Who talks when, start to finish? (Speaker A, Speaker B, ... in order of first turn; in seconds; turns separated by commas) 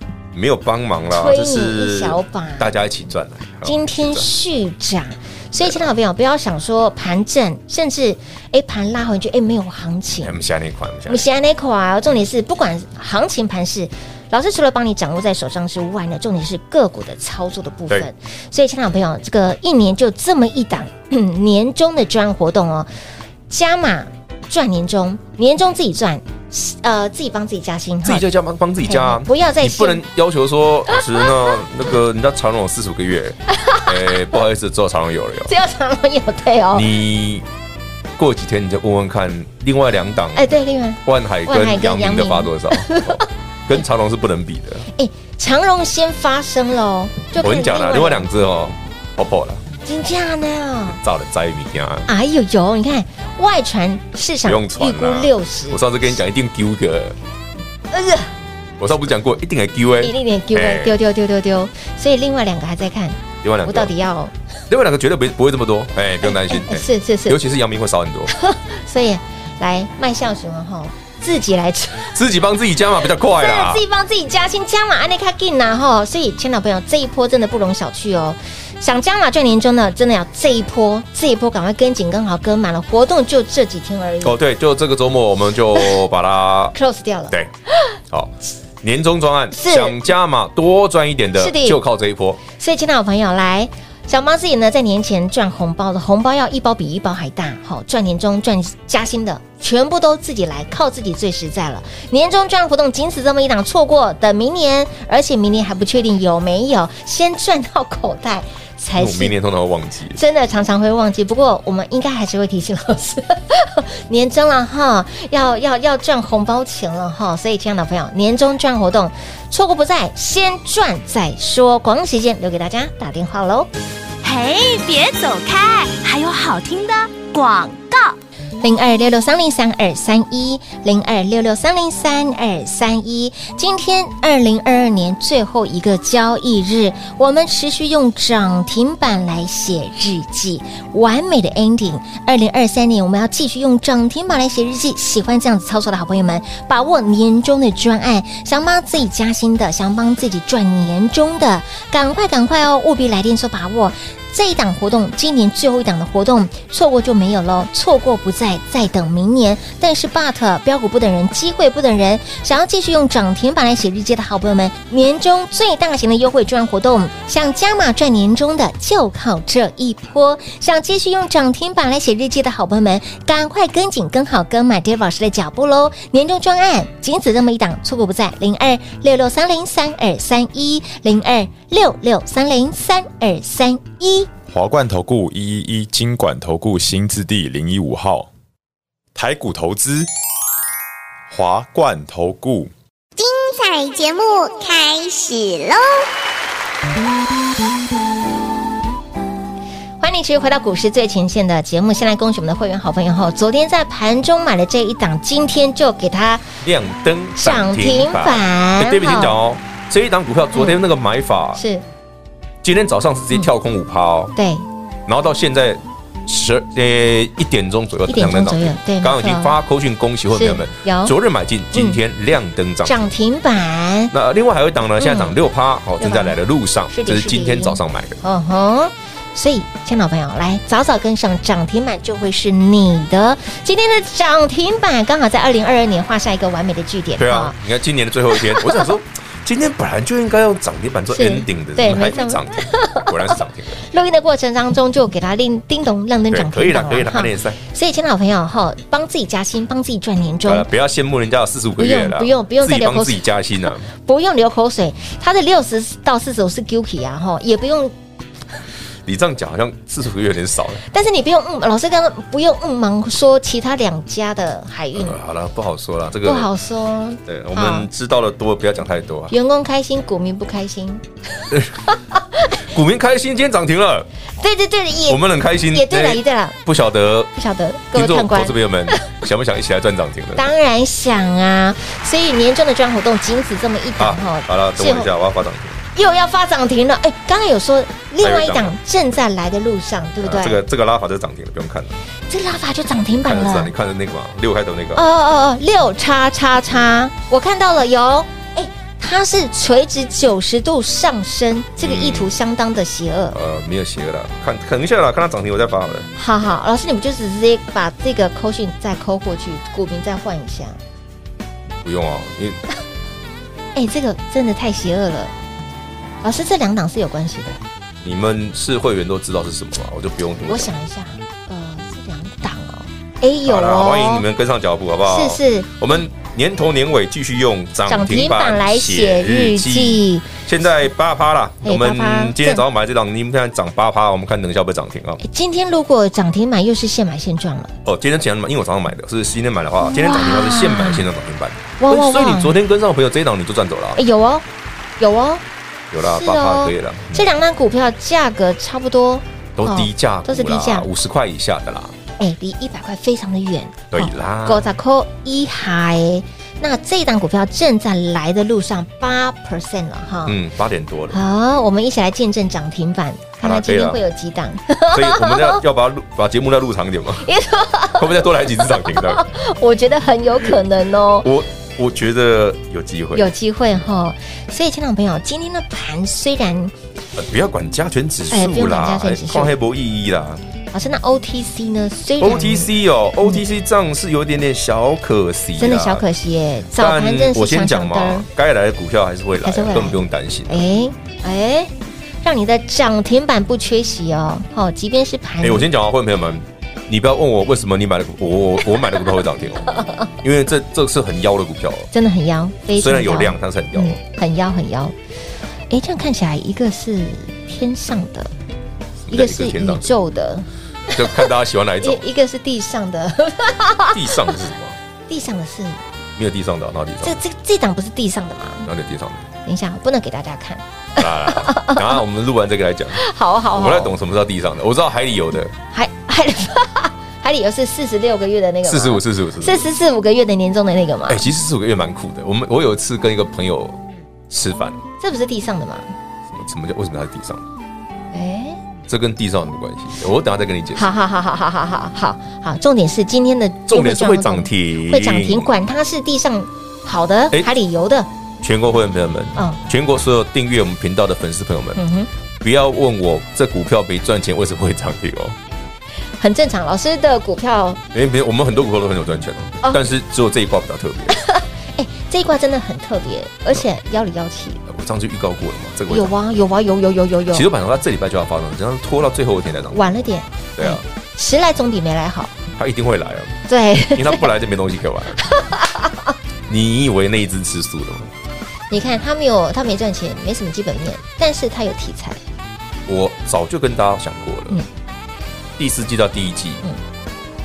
Speaker A: 0.3-4.3, Speaker B: 1.1-2.7, Speaker B: 3.6-10.4, Speaker A: 5.6-5.9, Speaker A: 10.2-11.3, Speaker B: 11.1-22.9, Speaker B: 23.5-28.3, Speaker A: 28.0-35.5, Speaker B: 28.9-30.0, Speaker B: 33.5-34.4, Speaker B: 35.5-36.9, Speaker A: 36.7-37.5, Speaker A: 38.2-40.5, Speaker B: 40.4-43.2, Speaker A: 41.0-44.9, Speaker B: 44.9-48.3, Speaker A: 47.4-49.6, Speaker B: 49.9-51.0, Speaker A: 50.9-52.1, Speaker B: 52.1-55.8, Speaker A: 54.5-57.2, Speaker B: 57.9-58.3, Speaker A: 58.8-61.0, Speaker B: 60.0-64.3, Speaker A: 63.4-63.9, Speaker A: 64.7-68.3, Speaker B: 66.2-67.4, Speaker B: 68.3-72.2, Speaker A: 72.1-73.8, Speaker B: 73.2-84.4, Speaker A: 84.2-86.8, Speaker B: 86.7-87.8, Speaker A: 88.1-92.4, Speaker B: 89.5-90.0, Speaker B: 91.4-91.8, Speaker B: 92.5-109.3, Speaker A: 109.0-110.2, Speaker B: 110.2-123.7, Speaker C: 124.2-128.2, Speaker B: 128.6-184.3, Speaker D: 184.5-188.3, Speaker D: 189.2-190.1, Speaker D: 191.3-192.7, Speaker E: 193.2-196.1, Speaker B: 200.0-206.4, Speaker A: 206.6-211.6, Speaker B: 207.4-209.4, Speaker B: 210.5-210.8, Speaker B: 211.6-211.8, Speaker A: 212.6-214.3, Speaker B: 214.4-214.7, Speaker A: 215.1-223.1, Speaker B: 218.1-219.6, Speaker B: 220.3-221.1, Speaker B: 221.7-222.0, Speaker B: 222.8-224.1, Speaker A: 224.1-228.2, Speaker B: 225.0-225.4, Speaker B: 226.0-226.4, Speaker B: 226.9-237.6, Speaker A: 237.2-243.8, Speaker B: 238.4-238.9, Speaker B: 241.1-250.7, Speaker A: 246.3-247.6, Speaker A: 250.5-253.9, Speaker B: 251.8-253.3, Speaker B: 253.9-257.9, Speaker A: 259.1-260.8, Speaker B: 260.9-265.2, Speaker A: 264.9-266.5, Speaker B: 266.2-267.9, Speaker A: 267.3-269.4, Speaker B: 269.3-272.5, Speaker A: 271.5-271.8, Speaker A: 272.6-274.1, Speaker B: 274.4-276.6, Speaker A: 275.1-277.3, Speaker B: 277.3-279.1, Speaker A: 277.9-280.4, Speaker B: 280.4-285.1, Speaker A: 284.0-285.8, Speaker B: 285.9-290.6, Speaker A: 288.2-288.8, Speaker A: 290.2-292.0, Speaker B: 292.3-293.7, Speaker A: 293.1-295.1, Speaker B: 294.9-303.4, Speaker A: 301.8-302.3, Speaker A: 303.3-306.1, Speaker B: 306.2-310.8, Speaker A: 311.8-312.6, Speaker B: 313.8-315.3, Speaker B: 316.2-317.6, Speaker A: 318.0-320.8, Speaker B: 320.4-324.3, Speaker A: 323.4-335.2, Speaker B: 325.1-325.7, Speaker B: 327.9-330.3, Speaker B: 331.6-332.6, Speaker B: 335.2-337.7, Speaker A: 337.9-344.0, Speaker B: 339.8-341.1, Speaker B: 341.8-342.6, Speaker B: 344.0-344.5, Speaker B: 345.0-345.4, Speaker A: 345.9-347.3, Speaker B: 346.0-350.9, Speaker A: 349.6-351.9, Speaker B: 352.2-360.4, Speaker A: 353.9-354.7, Speaker A: 360.3-361.2, Speaker B: 361.1-365.6, Speaker A: 363.4-364.0, Speaker A: 364.9-367.3, Speaker B: 367.2-371.3, Speaker A: 367.9-369.3, Speaker A: 371.2-373.3, Speaker B: 373.1-376.7, Speaker A: 377.2-380.4, Speaker B: 378.3-379.6, Speaker B: 380.7-383.4, Speaker A: 382.2-386.1, Speaker B: 385.6-388.3, Speaker A: 386.7-390.7, Speaker B: 389.4-395.7, Speaker A: 395.4-401.9, Speaker B: 398.8-399.0, Speaker B: 399.7-400.1, Speaker B: 401.9-404.9, Speaker A: 402.7-404.0, Speaker B: 405.7-408.3, Speaker A: 409.1-409.9, Speaker B: 409.1-414.4, Speaker A: 410.9-412.0, Speaker A: 413.9-414.8, Speaker B: 415.1-415.8, Speaker A: 416.2-417.2, Speaker B: 417.0-418.7, Speaker A: 418.6-419.2, Speaker B: 419.4-422.0, Speaker A: 421.0-423.0, Speaker B: 422.9-423.9, Speaker A: 423.5-425.5, Speaker B: 425.7-431.2, Speaker A: 428.7-429.7, Speaker A: 431.1-434.8, Speaker B: 435.0-435.9, Speaker A: 436.3-437.4, Speaker B: 438.1-438.6, Speaker A: 438.9-440.9, Speaker B: 440.8-448.1, Speaker A: 443.7-445.5, Speaker A: 448.4-451.8, Speaker B: 451.8-452.1, Speaker A: 452.4-455.4, Speaker B: 456.2-457.8, Speaker A: 457.9-461.2, Speaker B: 461.1-464.6, Speaker A: 464.7-466.1, Speaker B: 465.9-467.5, Speaker A: 467.3-470.0, Speaker B: 469.7-472.4, Speaker A: 470.6-470.8, Speaker A: 472.6-473.4, Speaker B: 473.5-474.3, Speaker A: 473.9-475.2, Speaker B: 475.2-476.1, Speaker A: 476.5-478.1, Speaker B: 478.7-482.2, Speaker A: 482.9-484.6, Speaker A: 485.6-486.6